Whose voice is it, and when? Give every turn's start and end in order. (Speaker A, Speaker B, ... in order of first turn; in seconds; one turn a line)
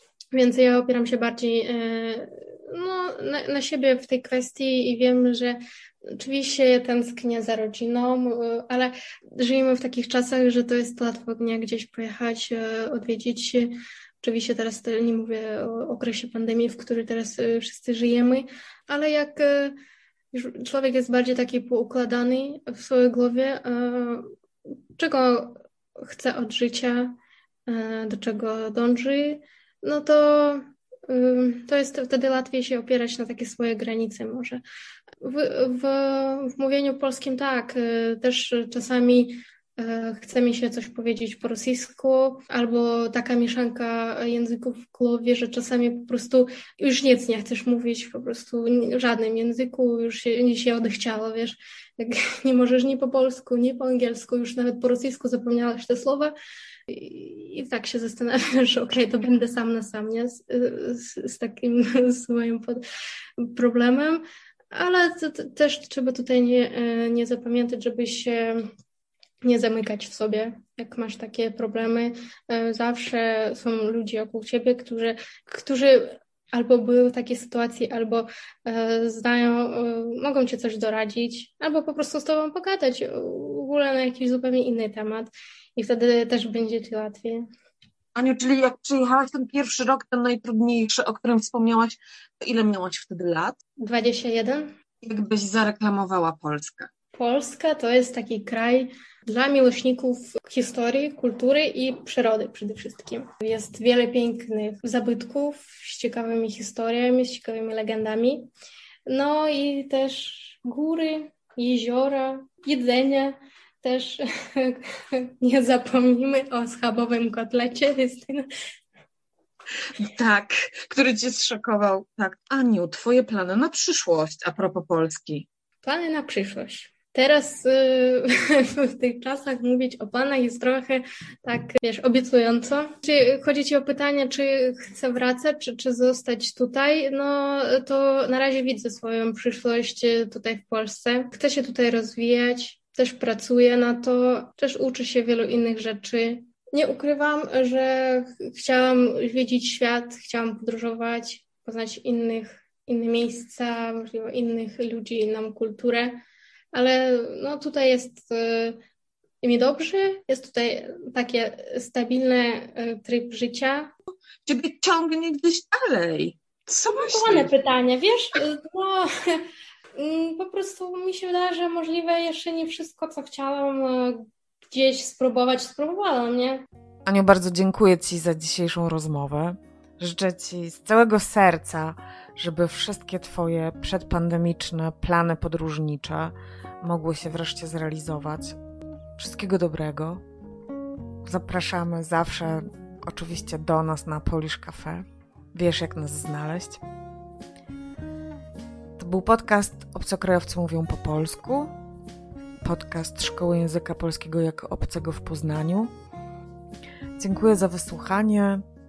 Speaker A: 0.3-19.8
Speaker A: 20.3-24.3
Speaker A: 25.0-27.2
Speaker A: 27.7-34.6
Speaker A: 35.2-56.3
Speaker A: 56.9-62.8
Speaker A: 63.4-68.7
Speaker A: 69.4-87.5
Speaker B: 88.2-93.6
Speaker A: 93.8-94.7
Speaker B: 95.0-96.9
Speaker A: 97.2-108.5
Speaker A: 109.1-118.5
Speaker B: 120.0-125.5
Speaker A: 125.8-156.2
Speaker A: 156.7-158.8
Speaker A: 159.4-163.9
Speaker B: 164.5-167.5
Speaker A: 167.0-169.4
Speaker A: 170.0-176.6
Speaker C: 177.1-188.6
Speaker C: 189.2-190.2
Speaker C: 191.2-196.8
Speaker C: 199.0-201.7
Speaker C: 202.6-205.9
Speaker C: 207.2-208.6